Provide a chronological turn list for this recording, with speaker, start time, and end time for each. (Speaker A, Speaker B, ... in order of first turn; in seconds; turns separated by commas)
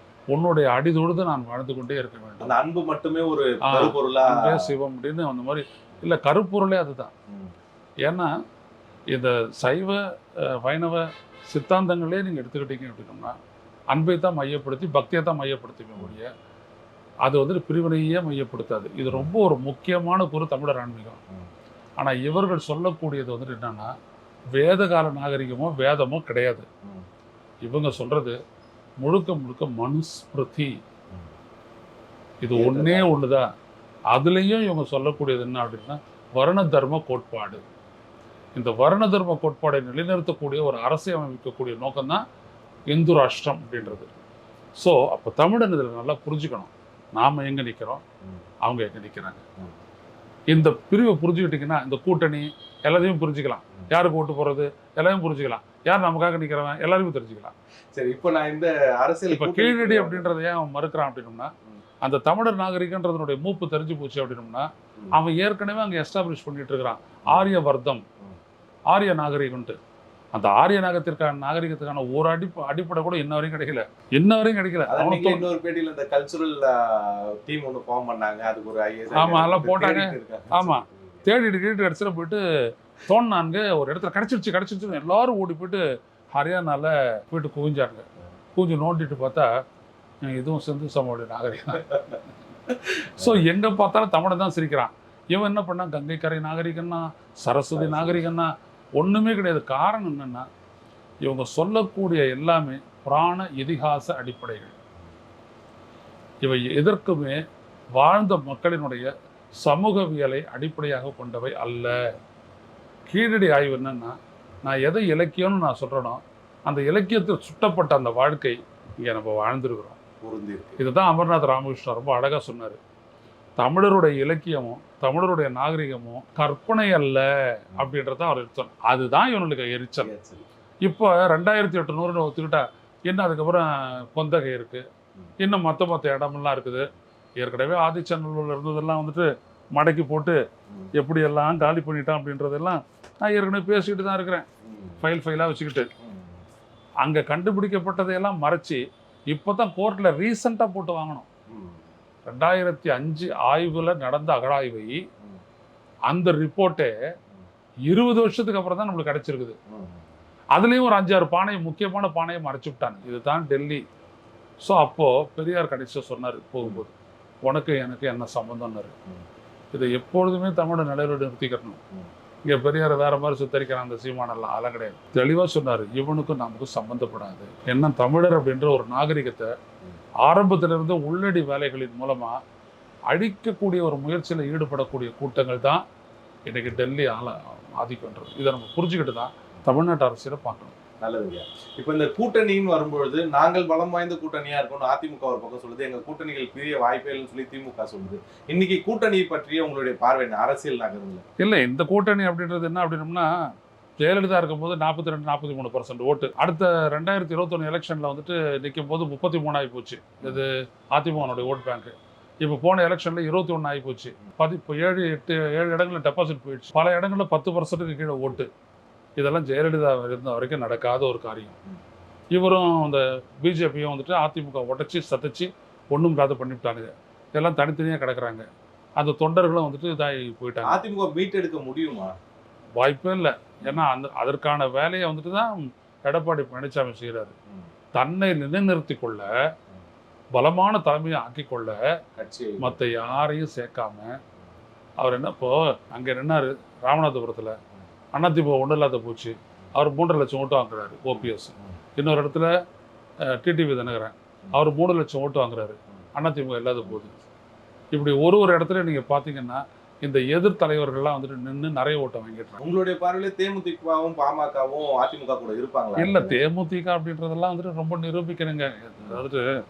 Speaker A: 0.3-2.6, Speaker B: 2.4-4.7, Speaker A: 3.6-7.1, Speaker B: 7.3-7.5, Speaker A: 8.1-8.3, Speaker A: 9.1-13.4, Speaker A: 13.9-16.3, Speaker A: 17.3-21.2, Speaker A: 22.0-23.9, Speaker A: 24.5-26.7, Speaker A: 27.6-28.4, Speaker A: 29.0-30.8, Speaker A: 32.4-33.5, Speaker B: 32.5-33.1, Speaker A: 34.1-37.6, Speaker A: 38.5-42.2, Speaker A: 42.9-44.1, Speaker A: 44.8-48.0, Speaker A: 48.6-49.4, Speaker A: 50.5-57.5, Speaker B: 57.9-60.3, Speaker A: 59.3-61.5, Speaker A: 62.0-68.0, Speaker A: 68.9-69.8, Speaker A: 70.3-75.5, Speaker B: 74.9-81.2, Speaker A: 79.1-82.4, Speaker A: 83.1-85.8, Speaker A: 86.3-89.5, Speaker A: 90.2-92.0, Speaker A: 92.7-100.5, Speaker B: 97.7-98.3, Speaker A: 101.2-104.8, Speaker A: 106.4-107.4, Speaker A: 108.0-109.1, Speaker A: 109.6-112.2, Speaker A: 113.1-120.0, Speaker B: 120.2-120.8, Speaker A: 120.8-122.8, Speaker A: 123.6-130.1, Speaker B: 130.0-130.5, Speaker A: 130.8-134.9, Speaker A: 135.4-136.9, Speaker A: 137.4-140.4, Speaker A: 140.9-144.5, Speaker B: 144.6-145.0, Speaker A: 145.0-145.9, Speaker B: 146.0-146.4, Speaker A: 147.0-151.3, Speaker B: 151.5-151.8, Speaker A: 152.3-155.1, Speaker A: 156.1-156.9, Speaker A: 157.9-159.6, Speaker B: 159.7-160.1, Speaker A: 160.5-163.8, Speaker A: 164.6-166.9, Speaker A: 167.4-168.9, Speaker A: 169.7-171.8, Speaker A: 172.4-179.5, Speaker A: 180.2-182.4, Speaker A: 183.1-185.8, Speaker A: 186.5-190.7, Speaker B: 191.0-201.2, Speaker A: 201.4-203.4, Speaker A: 204.0-218.5, Speaker B: 211.2-211.5, Speaker A: 219.2-221.6, Speaker A: 222.3-228.5, Speaker A: 229.0-230.8, Speaker B: 230.6-232.2, Speaker A: 232.8-237.3, Speaker A: 237.9-239.3, Speaker A: 240.3-241.8, Speaker B: 242.2-242.8, Speaker A: 242.6-244.2, Speaker A: 245.0-247.6, Speaker A: 248.1-252.5, Speaker B: 251.2-251.7, Speaker A: 253.2-257.2, Speaker A: 257.9-262.6, Speaker B: 262.6-266.4, Speaker A: 266.0-269.5